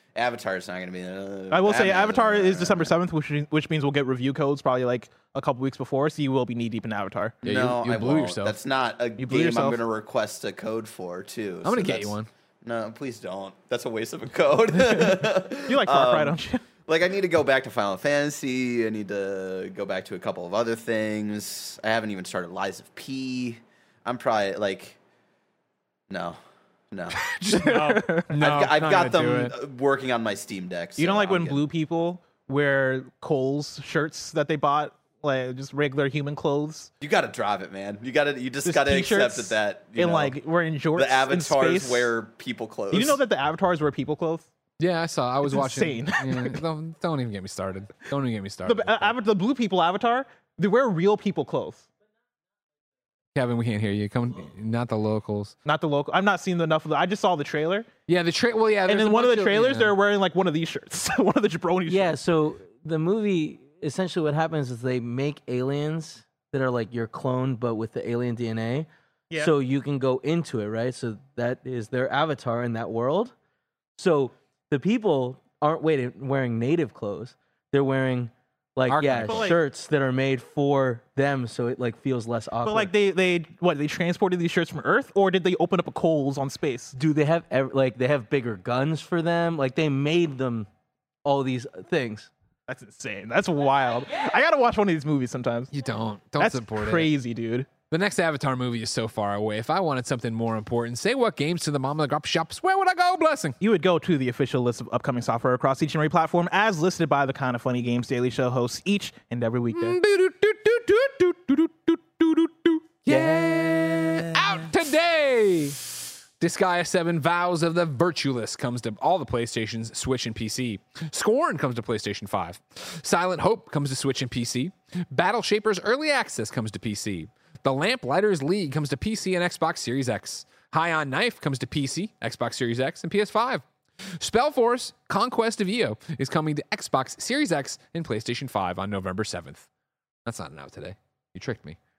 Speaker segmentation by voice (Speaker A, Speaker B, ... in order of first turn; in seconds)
Speaker A: 0.1-2.9, 7.4-25.0, 26.1-26.4, 26.9-27.2, 28.4-31.6, 37.0-40.4, 41.0-43.2
Speaker B: 1.5-7.3, 9.2-9.8, 14.9-16.6, 27.6-28.3, 31.0-36.9, 38.6-42.1, 42.9-44.5, 45.4-46.6, 48.6-51.9, 55.6-57.9, 58.9-62.1, 79.2-79.6, 82.6-86.9, 92.7-95.7, 96.4-97.7, 103.6-110.0
Speaker C: 7.4-8.5, 11.6-12.3, 27.2-29.5, 44.8-49.1, 53.3-55.5, 58.1-59.9, 78.9-79.5, 95.7-97.1, 97.9-103.5, 109.7-115.8, 116.4-139.7, 140.2-141.8
Speaker D: 61.9-73.3, 74.0-82.9, 86.9-90.7, 91.2-92.3